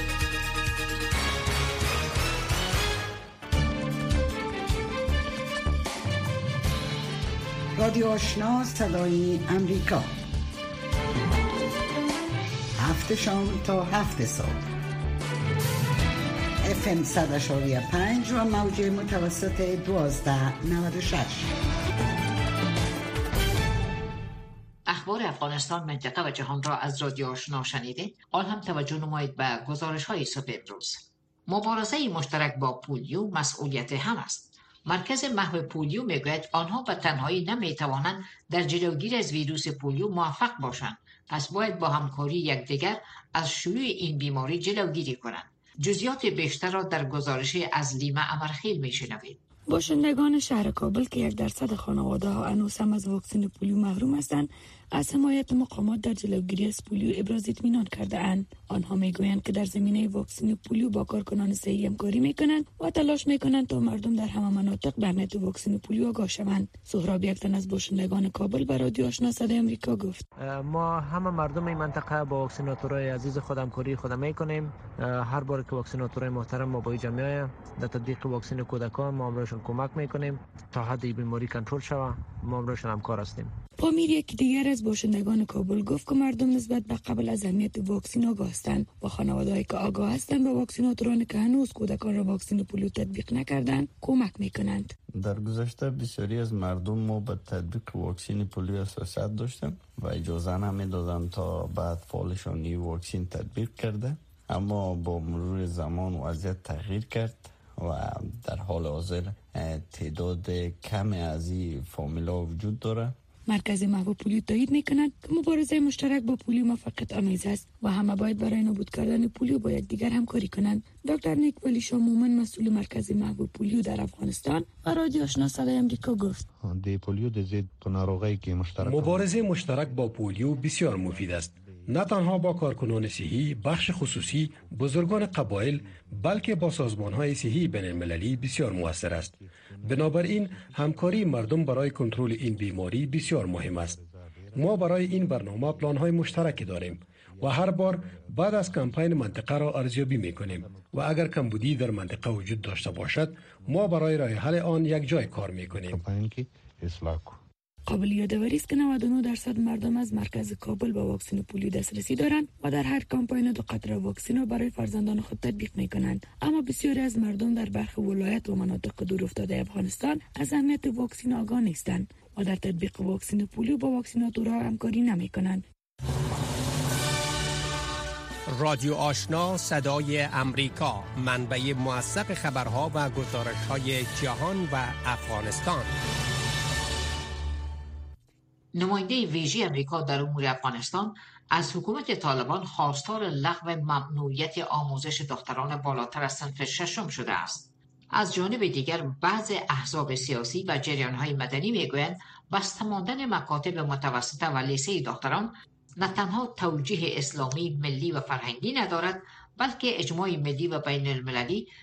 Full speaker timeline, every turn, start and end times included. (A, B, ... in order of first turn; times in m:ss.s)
0:07.7-0:10.1 A
0:12.8-0:14.6 A
0:16.6-0:21.5 A
0:24.9-0:49.4 B
0:49.7-1:10.2 C
1:10.4-1:23.5 D
1:23.8-1:34.9 C
1:35.1-1:53.2 E
1:53.5-2:06.4 C
2:06.7-2:08.7 F
2:08.8-2:24.0 G
2:24.5-2:36.0 G
2:36.1-2:37.4 F
2:37.9-2:55.6 C
2:58.5-3:05.9 H
3:08.7-3:31.7 B